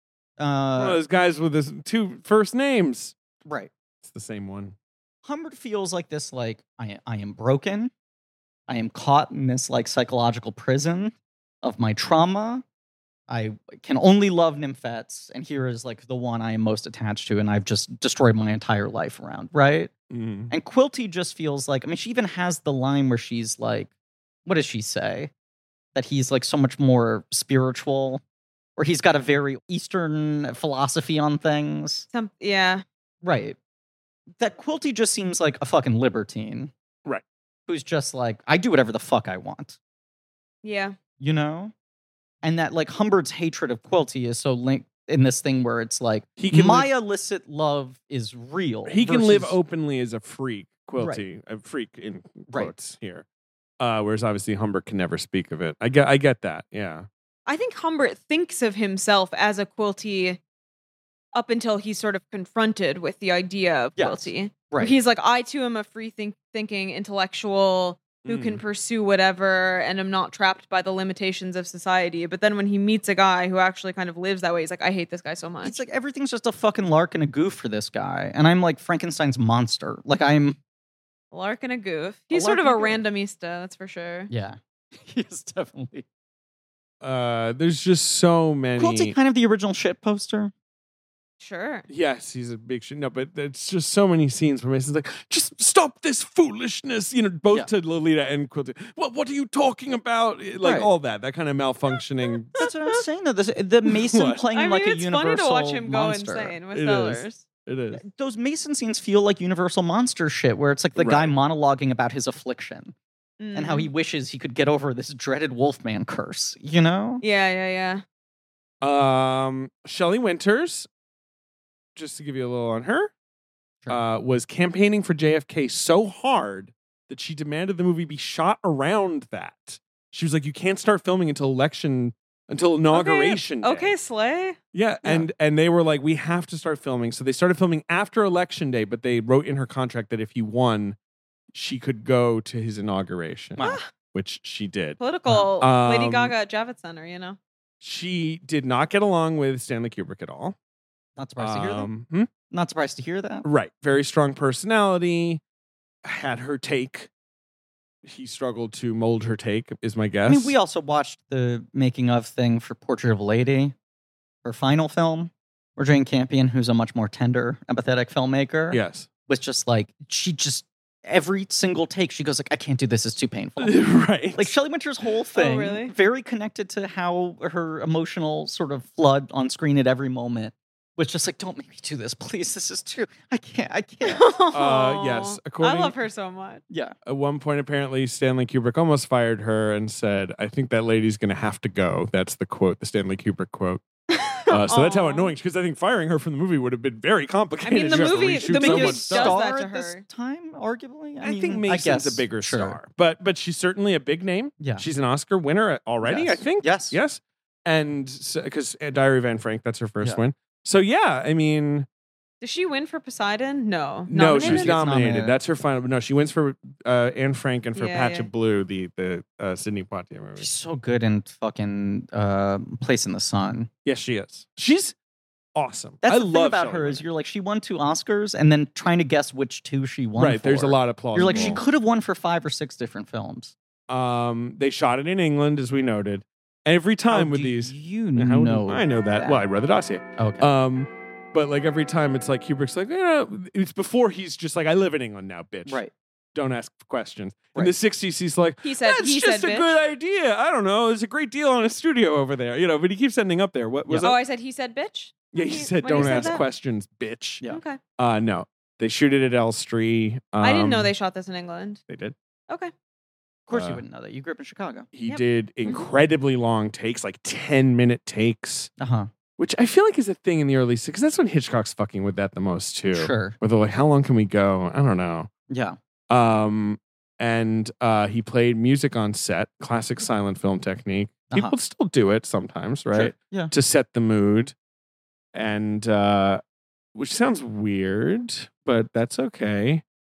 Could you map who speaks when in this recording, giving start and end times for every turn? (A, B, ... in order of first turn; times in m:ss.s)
0:00.4-0:01.0 A
0:00.8-0:03.2 B
0:03.5-0:03.7 A
0:04.0-0:04.8 B
0:05.2-0:07.9 A
0:08.7-0:12.6 A
0:13.3-0:19.9 A
0:20.1-0:20.5 B
0:20.5-0:23.9 A
0:24.5-0:25.3 A
0:26.0-0:28.2 A
0:28.8-0:32.1 A
0:32.1-0:32.8 C
0:33.2-0:33.6 A
0:34.4-0:36.7 A
0:37.7-0:39.8 A
0:40.6-0:41.0 C
0:41.2-0:41.7 A
0:42.4-0:49.6 A
0:46.4-0:46.9 B
0:48.9-0:53.2 B
0:51.0-0:51.2 A
0:53.8-0:57.1 B
0:57.5-1:00.4 C
1:01.3-1:15.8 C
1:04.0-1:04.9 A
1:08.2-1:08.6 B
1:15.6-1:20.6 A
1:21.3-1:24.3 C
1:22.3-1:23.0 A
1:24.3-1:26.1 A
1:27.0-1:29.1 B
1:28.8-1:30.5 A
1:31.4-1:31.9 C
1:31.9-1:42.6 B
1:40.6-1:40.9 A
1:42.6-1:46.6 A
1:44.0-1:44.4 B
1:44.5-1:47.4 C
1:46.7-1:48.0 B
1:48.0-1:53.0 A
1:51.0-1:51.3 B
1:53.4-1:53.9 C
1:53.5-1:57.2 A
1:57.2-1:58.0 C
1:58.8-2:00.9 B
2:02.0-2:03.1 B
2:03.9-2:13.9 B
2:12.9-2:14.6 C
2:14.7-2:21.0 B
2:21.5-2:25.0 B
2:23.6-2:23.9 C
2:25.0-2:27.4 C
2:25.6-2:26.4 B
2:27.8-2:30.6 B
2:31.2-2:31.9 A
2:31.4-2:32.3 B
2:32.5-2:33.4 A
2:33.4-2:35.4 B
2:36.0-2:37.1 B
2:38.0-2:40.6 B
2:40.3-2:43.8 A
2:44.4-2:53.8 A
2:48.7-2:49.1 B
2:53.6-2:54.5 B
2:54.4-3:04.2 A
2:55.4-2:55.9 C
3:04.0-3:06.6 C
3:04.5-3:06.0 B
3:06.7-3:07.0 A
3:07.1-3:13.8 B
3:14.1-3:15.3 C
3:14.5-3:19.4 B
3:17.6-3:20.0 C
3:17.9-3:22.8 A
3:21.2-3:31.9 B
3:24.6-3:24.8 A
3:26.0-3:27.0 A
3:32.4-3:34.8 C
3:34.1-3:40.5 B
3:34.4-3:35.4 A
3:37.8-3:38.3 C
3:40.4-3:43.7 A
3:43.8-3:45.0 B
3:45.6-3:47.0 B
3:46.0-3:53.5 A
3:50.2-3:51.6 B
3:53.9-4:05.8 B
3:57.1-3:59.4 A
4:00.2-4:00.5 A
4:05.7-4:05.9 A
4:06.4-4:14.2 B
4:08.6-4:09.8 C
4:14.0-4:16.4 C
4:15.3-4:17.4 B
4:15.9-4:16.4 A
4:17.5-4:17.8 C
4:18.0-4:20.9 B
4:20.4-4:21.8 C
4:21.9-4:22.2 B
4:23.5-4:24.9 A
4:23.5-4:23.8 B
4:24.9-4:28.7 B
4:25.1-4:25.8 C
4:28.8-4:29.1 A
4:29.4-4:35.3 B
4:32.9-4:33.4 A
4:35.5-4:35.8 A
4:36.1-4:44.5 B
4:42.9-4:43.5 A
4:45.3-4:46.4 B
4:47.0-4:49.8 B